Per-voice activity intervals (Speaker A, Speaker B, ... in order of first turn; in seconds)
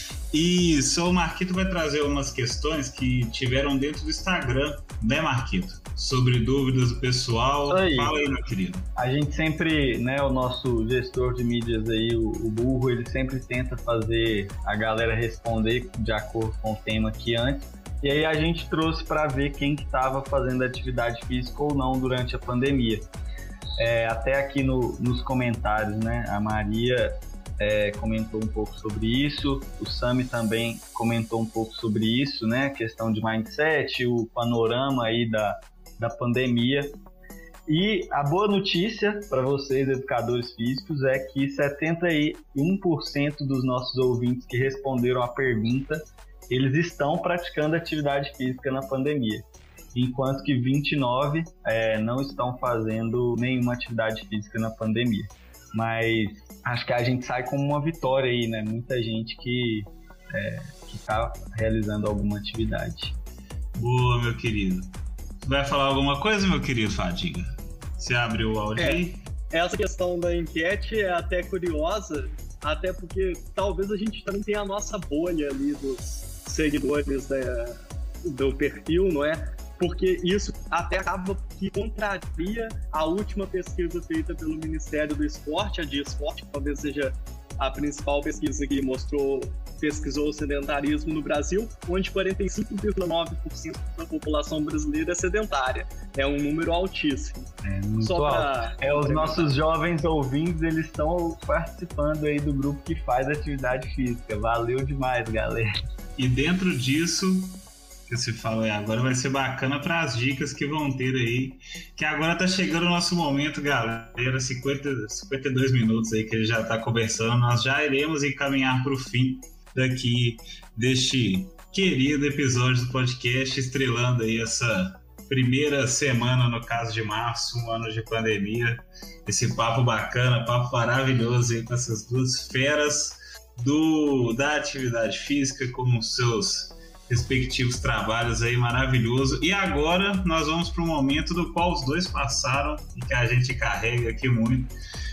Speaker A: 0.3-8.9, 63.8-64.9, 65.4-69.2, 106.2-144.7
Speaker B: 7.7-8.2, 9.0-23.1, 23.8-37.0, 37.7-63.1, 97.7-105.7
Speaker C: 68.8-99.6